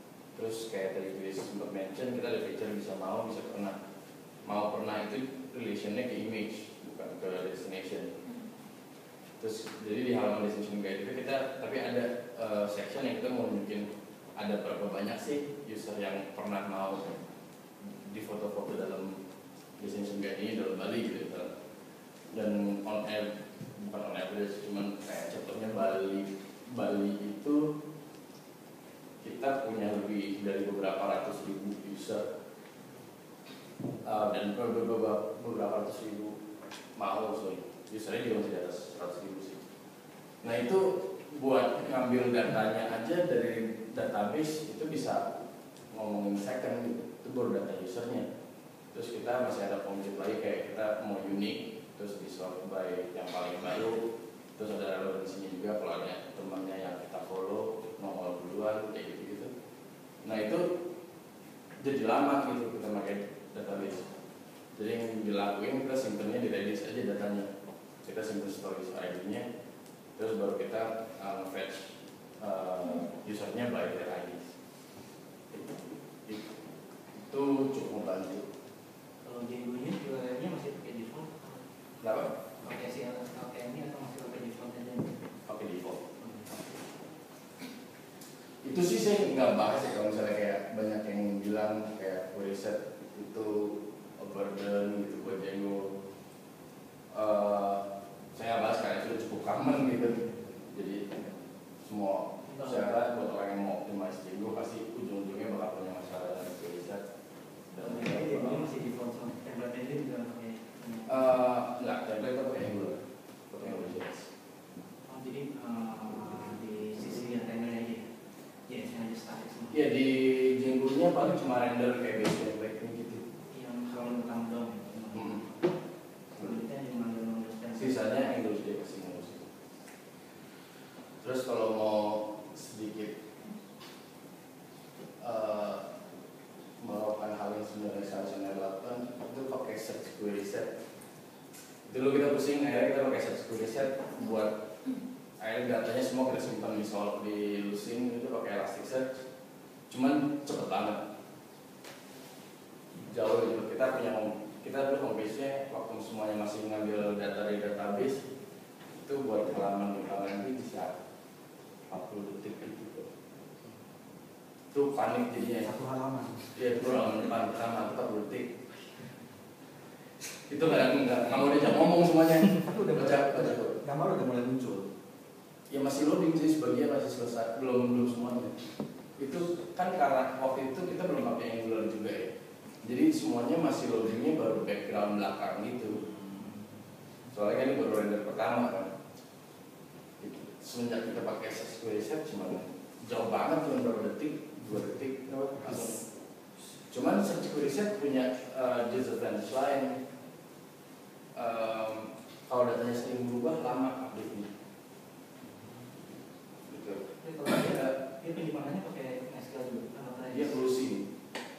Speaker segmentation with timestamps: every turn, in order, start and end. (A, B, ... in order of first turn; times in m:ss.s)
0:00.3-0:03.8 A
0:04.4-0:08.1 A
0:09.4-0:13.9 A
0:14.4-0:17.2 A
0:17.8-0:19.2 A
0:19.8-0:21.5 A
0:22.3-0:27.7 A
0:29.2-0:32.2 A
0:34.0-0:36.3 A
0:37.0-0:39.6 A
0:40.4-0:45.3 A
0:45.9-0:48.2 A
0:48.9-0:54.0 A
0:54.6-0:59.5 A
1:00.2-1:00.7 A
1:01.8-1:04.0 A
1:04.7-1:07.5 A
1:08.0-1:09.4 A
1:10.2-1:14.5 A
1:15.5-1:16.5 A
1:17.1-1:18.4 A
1:19.2-1:21.6 B
1:22.0-1:22.3 A
1:22.6-1:25.2 B
1:25.4-1:26.0 A
1:26.2-1:26.4 B
1:28.6-1:36.0 A
1:37.1-1:37.8 A
1:38.3-1:41.3 A
1:41.8-1:47.0 A
1:42.5-1:42.8 B
1:47.7-1:48.7 A
1:47.8-1:51.2 B
1:51.1-1:54.3 A
1:55.1-1:58.1 B
1:58.7-1:59.8 B
1:59.7-2:03.3 A
2:03.5-2:05.4 B
2:05.1-2:05.4 A
2:06.4-2:08.3 B
2:07.8-2:09.5 A
2:11.2-2:13.1 A
2:15.2-2:15.9 A
2:16.8-2:20.7 A
2:21.9-2:24.7 A
2:25.4-2:29.2 A
2:29.9-2:31.0 A
2:33.1-2:38.2 A
2:38.9-2:40.9 A
2:41.9-2:43.1 A
2:44.7-2:45.7 A
2:45.6-2:46.6 C
2:46.5-2:48.6 A
2:50.5-2:53.8 A
2:52.6-2:54.9 C
2:55.7-2:58.6 A
2:59.2-3:02.3 A
3:02.8-3:06.0 A
3:07.3-3:08.9 A
3:10.2-3:16.0 A
3:16.9-3:20.0 A
3:21.3-3:24.5 A
3:26.7-3:28.0 A
3:27.2-3:30.6 B
3:30.3-3:31.1 A